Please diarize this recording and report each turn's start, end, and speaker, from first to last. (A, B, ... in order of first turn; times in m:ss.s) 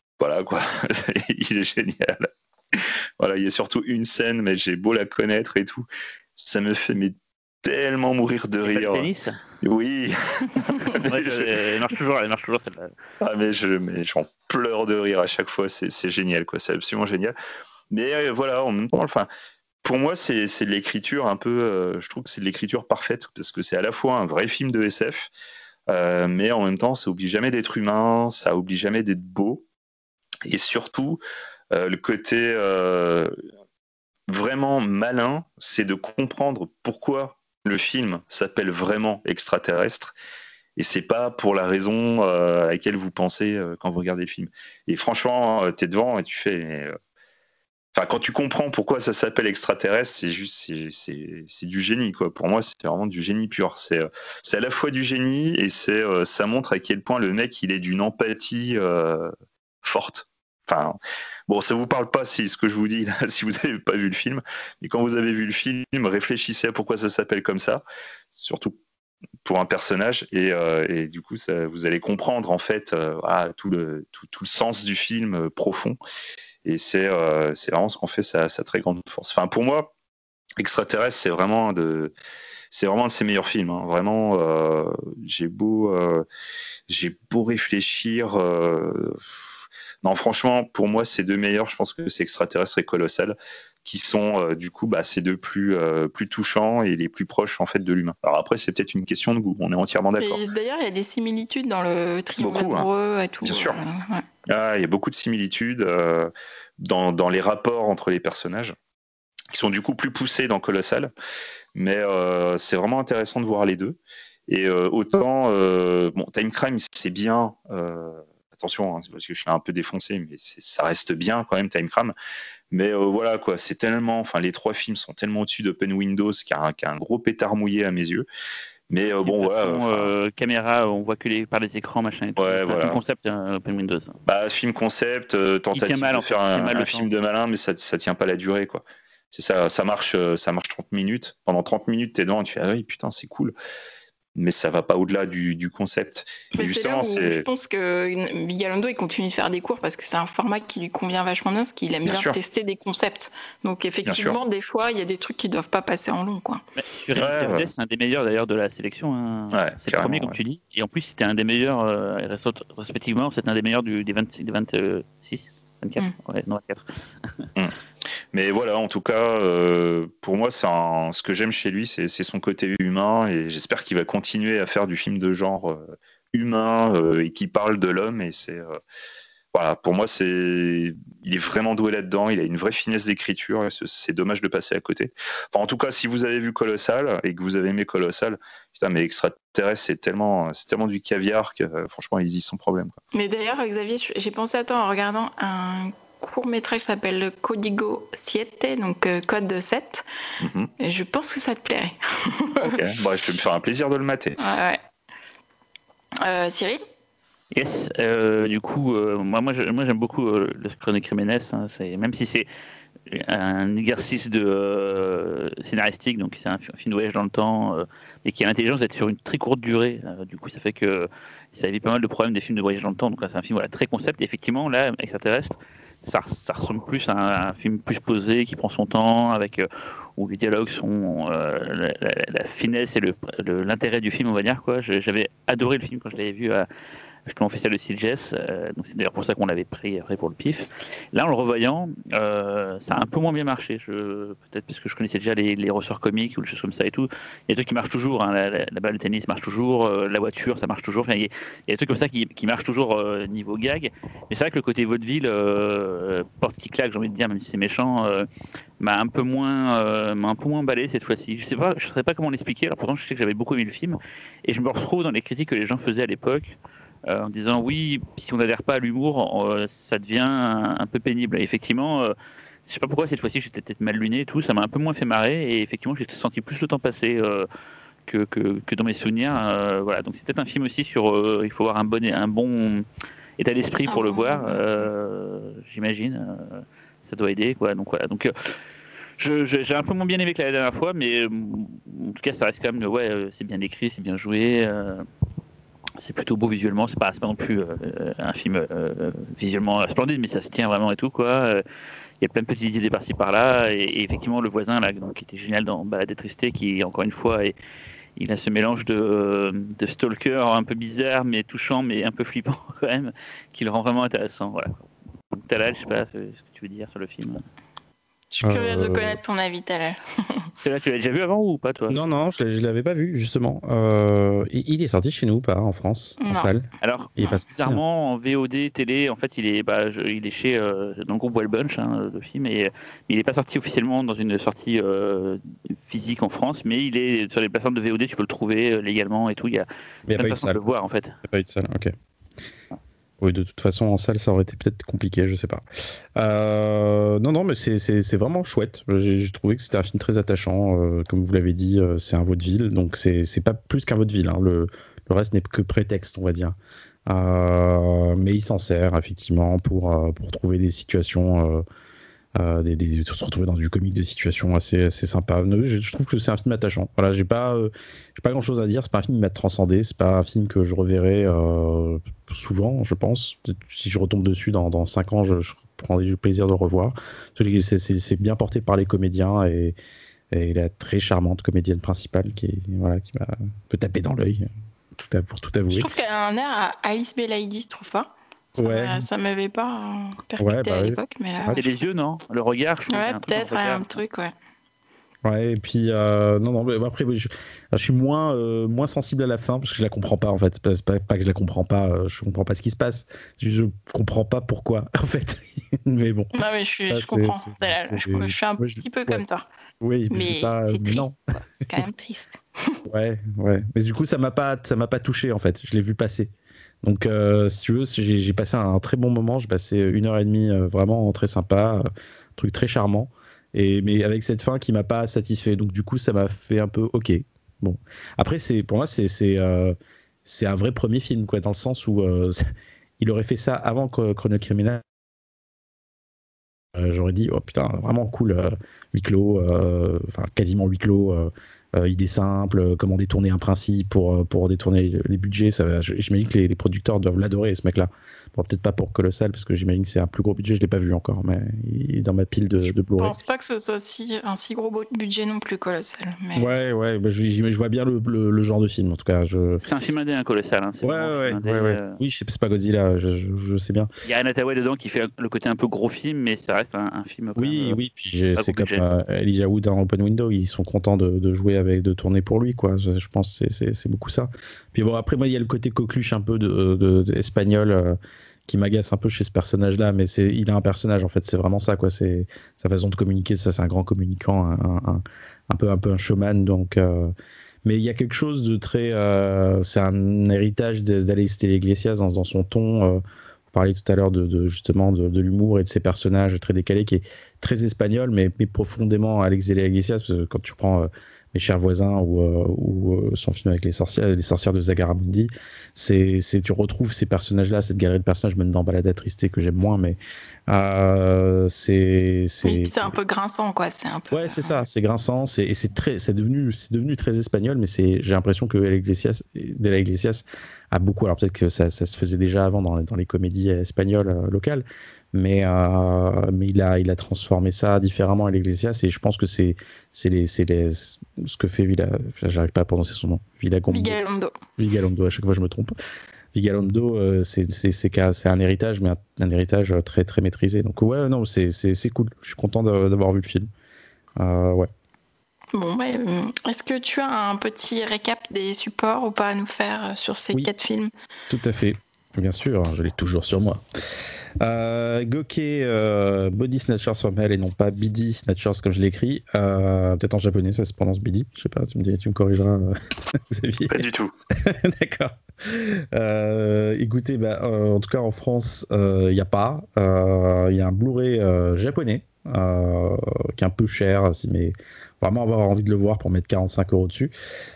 0:00.2-0:09.1 A
0:08.6-0:09.4 B
0:09.6-0:11.6 A
0:10.9-0:12.9 B
0:13.2-0:17.4 A
0:17.9-0:19.3 A
0:19.8-0:25.3 A
0:25.9-0:29.6 A
0:30.5-0:31.2 A
0:31.7-0:33.3 A
0:34.3-0:40.1 A
0:40.8-0:47.0 A
0:47.9-0:59.3 A
0:59.8-1:01.0 A
1:01.5-1:08.8 A
1:09.4-1:16.0 A
1:16.6-1:19.9 A
1:20.6-1:22.1 A
1:22.7-1:26.2 A
1:26.9-1:29.2 A
1:30.0-1:40.4 A
1:40.2-1:44.2 C
1:42.4-1:42.9 A
1:43.4-1:43.8 A
1:44.5-1:48.7 A
1:49.5-1:51.1 A
1:51.7-2:02.1 A
2:02.7-2:08.2 A
2:08.9-2:10.1 A
2:09.0-2:14.2 B
2:12.4-2:13.0 A
2:14.2-2:23.5 A
2:15.7-2:17.1 B
2:24.4-2:27.4 A
2:26.5-2:36.6 C
2:32.0-2:32.4 A
2:34.0-2:34.4 A
2:36.8-2:47.4 B
2:37.1-2:37.7 A
2:39.5-2:40.3 A
2:48.3-2:58.8 A
2:59.5-3:13.0 A
3:13.1-3:20.0 C
3:20.4-3:20.7 A
3:20.8-3:22.8 C
3:22.6-3:24.4 A
3:24.4-3:24.8 C
3:26.2-3:26.8 C
3:27.5-3:32.5 B
3:33.1-3:56.7 B
3:57.2-4:18.3 B
4:18.8-4:26.6 B
4:27.1-4:32.1 B
4:32.7-4:37.5 B
4:38.1-4:42.8 B
4:43.4-4:48.6 B
4:43.9-4:44.9 C
4:49.2-4:55.0 B
4:56.0-5:01.6 B
5:02.2-5:07.5 B
5:08.2-5:14.7 B
5:15.3-5:17.4 B
5:18.3-5:20.5 C
5:18.4-5:19.2 D
5:20.6-5:22.0 B
5:21.9-5:27.8 D
5:26.2-5:26.5 C
5:26.8-5:41.1 B
5:40.1-5:40.6 D
5:41.3-5:41.9 D
5:43.2-5:45.6 D
5:46.2-5:56.6 D
5:57.1-6:01.6 D
6:02.4-6:19.8 D
6:20.3-6:24.4 D
6:25.0-6:25.9 D
6:25.7-6:31.6 C
6:28.6-6:29.0 D
6:30.4-6:31.6 D
6:31.5-6:34.0 B
6:32.9-6:34.3 C
6:35.2-6:46.3 D
6:46.3-6:49.4 C
6:46.9-6:49.2 D
6:49.8-6:51.1 D
6:50.1-6:51.1 C
6:51.6-6:52.8 C
6:52.9-6:56.3 D
6:56.8-7:12.5 D
7:13.0-7:14.8 D
7:16.7-7:33.2 D
7:33.0-7:36.5 C
7:36.3-7:39.6 D
7:39.6-7:42.0 B
7:40.8-7:43.9 D
7:44.0-7:47.8 B
7:47.4-8:07.1 D
7:48.3-7:48.8 B
8:07.6-8:32.9 D
8:32.4-8:34.6 C
8:34.1-8:54.0 D
8:53.7-8:54.3 C
8:54.6-8:55.7 D
8:56.3-9:03.5 D
9:04.2-9:04.7 D
9:05.5-9:10.9 C
9:11.3-9:13.6 D
9:14.4-9:37.1 D
9:23.7-9:24.1 A